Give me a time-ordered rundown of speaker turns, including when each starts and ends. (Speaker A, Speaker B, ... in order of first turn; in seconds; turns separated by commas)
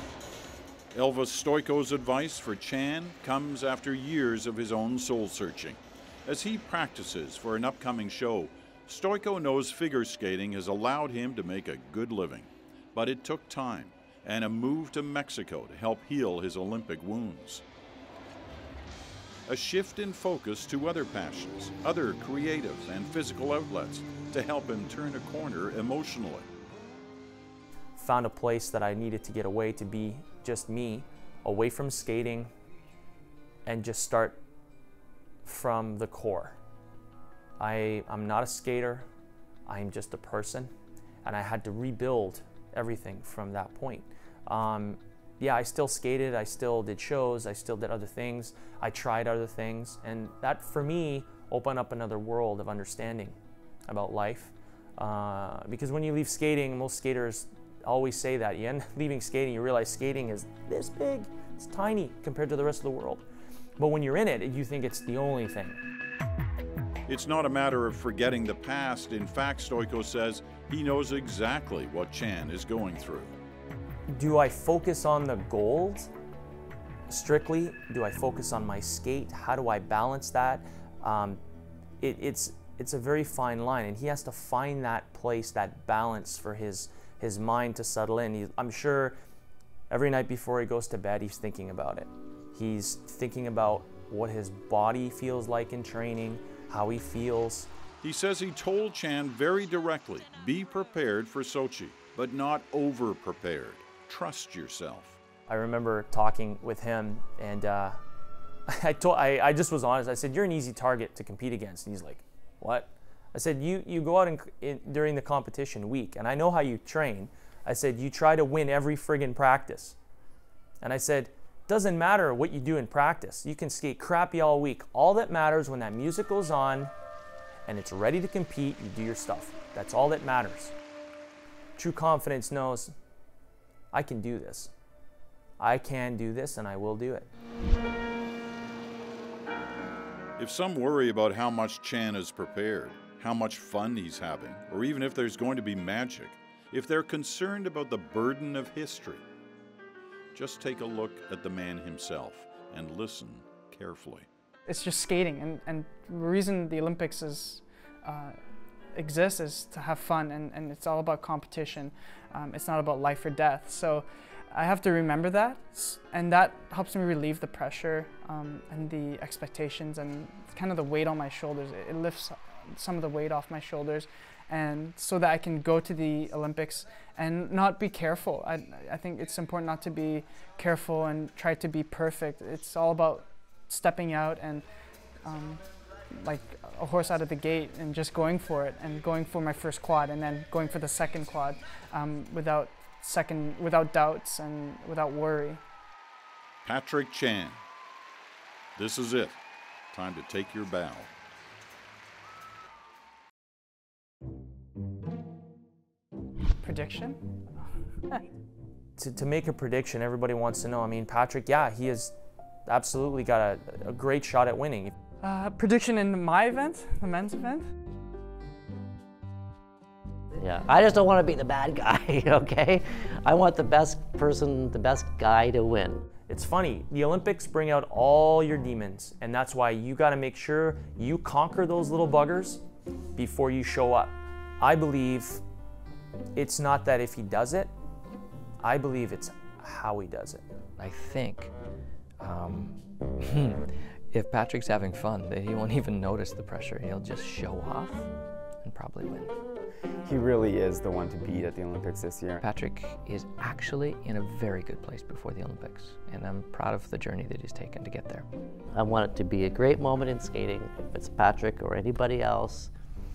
Speaker A: 0.9-17.6, Speaker A: 19.5-26.5, Speaker B: 28.0-32.5, Speaker B: 33.6-34.4, Speaker B: 35.5-36.6, Speaker B: 37.6-39.1, Speaker B: 39.7-40.7, Speaker B: 41.2-63.2, Speaker B: 63.8-65.8, Speaker A: 67.1-73.4, Speaker B: 74.1-76.1, Speaker B: 77.1-81.4, Speaker B: 82.0-89.2, Speaker B: 89.9-97.7, Speaker A: 98.0-105.2, Speaker B: 105.5-108.0, Speaker B: 108.7-120.0, Speaker B: 120.8-126.9, Speaker B: 127.7-130.7, Speaker B: 131.8-132.9, Speaker B: 133.9-134.7, Speaker B: 135.6-137.3, Speaker A: 140.4-149.2, Speaker A: 150.3-154.3, Speaker C: 154.7-158.4, Speaker C: 158.9-184.7, Speaker C: 185.2-195.6, Speaker A: 196.7-197.6, Speaker A: 198.8-199.4, Speaker A: 199.9-201.1, Speaker C: 206.6-207.5, Speaker B: 209.0-212.1, Speaker B: 212.7-214.9, Speaker C: 215.2-217.7, Speaker D: 220.4-226.1, Speaker B: 226.3-232.6, Speaker B: 233.2-235.4, Speaker B: 236.3-237.7, Speaker B: 238.6-240.4, Speaker E: 240.8-241.5, Speaker E: 242.2-248.1, Speaker E: 248.6-249.3, Speaker F: 250.0-252.4, Speaker E: 252.4-258.3, Speaker D: 258.7-262.7